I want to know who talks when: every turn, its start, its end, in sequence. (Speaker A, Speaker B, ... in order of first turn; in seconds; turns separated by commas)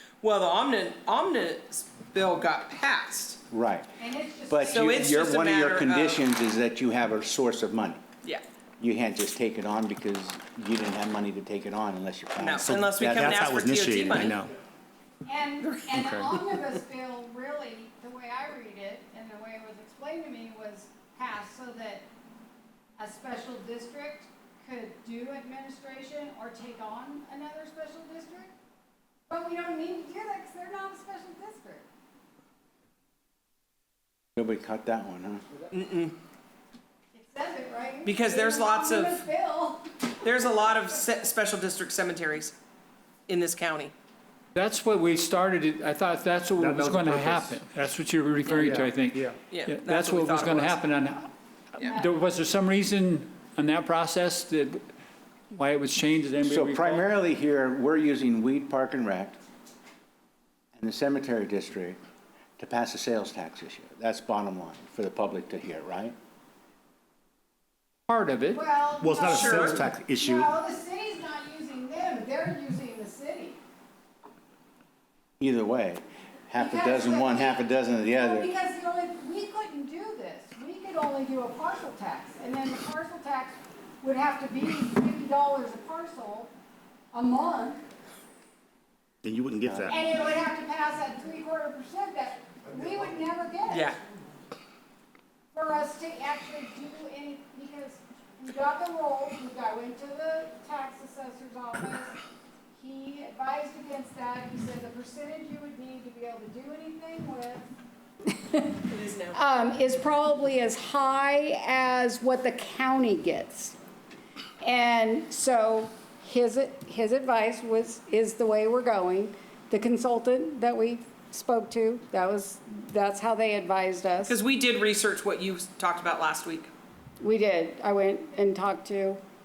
Speaker A: 0.2-3.4, Speaker B: 3.5-3.9, Speaker C: 4.0-5.0, Speaker B: 4.5-8.0, Speaker A: 4.7-6.2, Speaker B: 8.8-13.4, Speaker A: 12.4-14.4, Speaker D: 12.6-14.5, Speaker C: 15.2-22.0, Speaker C: 23.0-28.5, Speaker C: 29.3-31.8, Speaker B: 34.4-35.4, Speaker A: 35.7-36.1, Speaker C: 37.1-40.0, Speaker A: 38.0-39.2, Speaker A: 40.2-42.6, Speaker A: 43.3-43.9, Speaker E: 44.5-54.9, Speaker D: 46.6-47.5, Speaker D: 48.6-49.2, Speaker A: 49.5-50.8, Speaker E: 55.5-57.1, Speaker B: 56.5-59.4, Speaker B: 60.8-62.0, Speaker B: 62.6-66.1, Speaker E: 68.1-68.6, Speaker C: 68.5-73.6, Speaker D: 69.0-70.5, Speaker A: 69.2-69.8, Speaker B: 75.4-78.5, Speaker C: 76.6-86.5, Speaker C: 87.1-87.8, Speaker D: 89.2-90.0, Speaker B: 89.7-90.0, Speaker C: 89.9-93.9, Speaker A: 93.7-94.0, Speaker C: 95.5-102.2, Speaker C: 102.7-107.7, Speaker C: 108.3-108.8, Speaker A: 108.9-109.4, Speaker C: 109.3-113.8, Speaker C: 114.6-124.4, Speaker A: 124.2-126.7, Speaker C: 127.2-129.2